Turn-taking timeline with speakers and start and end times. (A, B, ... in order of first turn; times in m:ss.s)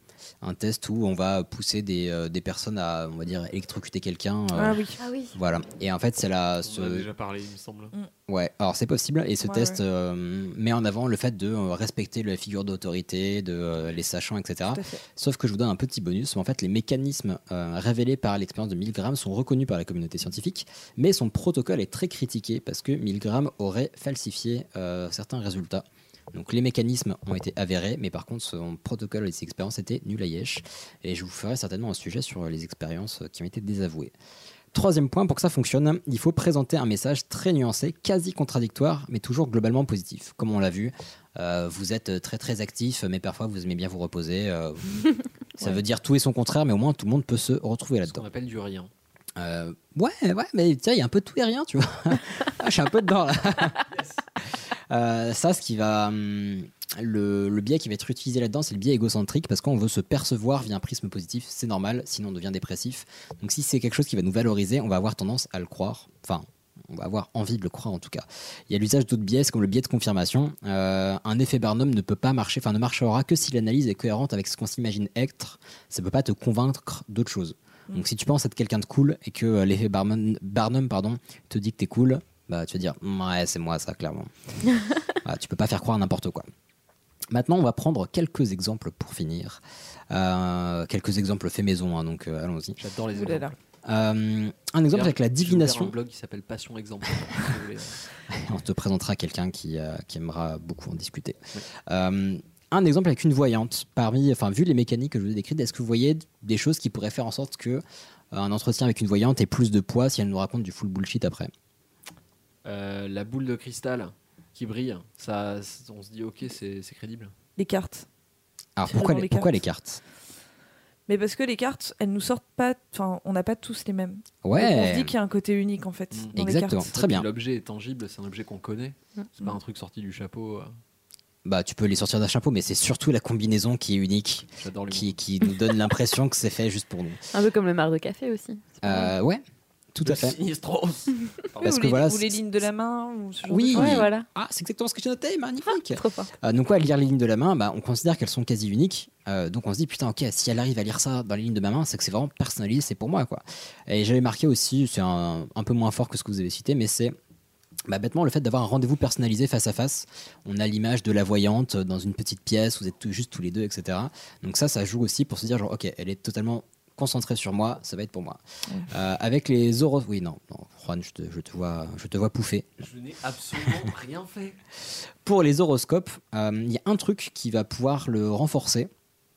0:00.4-0:07.1 A
0:04.5-0:05.0 B
0:05.0-0:05.4 C
0:06.6-0:07.9 D
0:08.3-0:34.1 A
0:09.4-0:09.8 B
0:14.7-0:15.0 B
0:34.7-0:48.2 A
0:48.0-0:48.9 D
0:49.4-0:53.8 A
0:53.9-0:54.2 D
0:54.9-1:24.3 A
1:25.2-1:26.4 A
1:27.3-1:32.8 A
1:32.8-1:33.6 D
1:33.1-1:33.5 B
1:33.8-1:36.0 A
1:34.9-1:38.0 D
1:38.3-1:51.5 A
1:52.6-1:57.3 D
1:57.6-1:58.0 B
1:58.8-2:00.0 A
1:58.9-1:59.5 B
2:01.1-2:06.9 B
2:04.4-2:05.1 A
2:06.1-2:06.4 D
2:06.3-2:07.3 A
2:06.9-2:10.7 D
2:11.4-2:17.2 A
2:14.6-2:15.1 D
2:17.3-2:19.1 C
2:18.8-2:19.4 A
2:19.9-2:20.4 A
2:20.0-2:21.8 D
2:21.6-2:22.4 A
2:21.6-2:24.1 B
2:23.5-2:37.1 A
2:23.7-2:24.2 C
2:25.7-2:26.3 C
2:37.9-2:52.7 A
2:52.8-2:54.6 D
2:55.2-2:58.9 A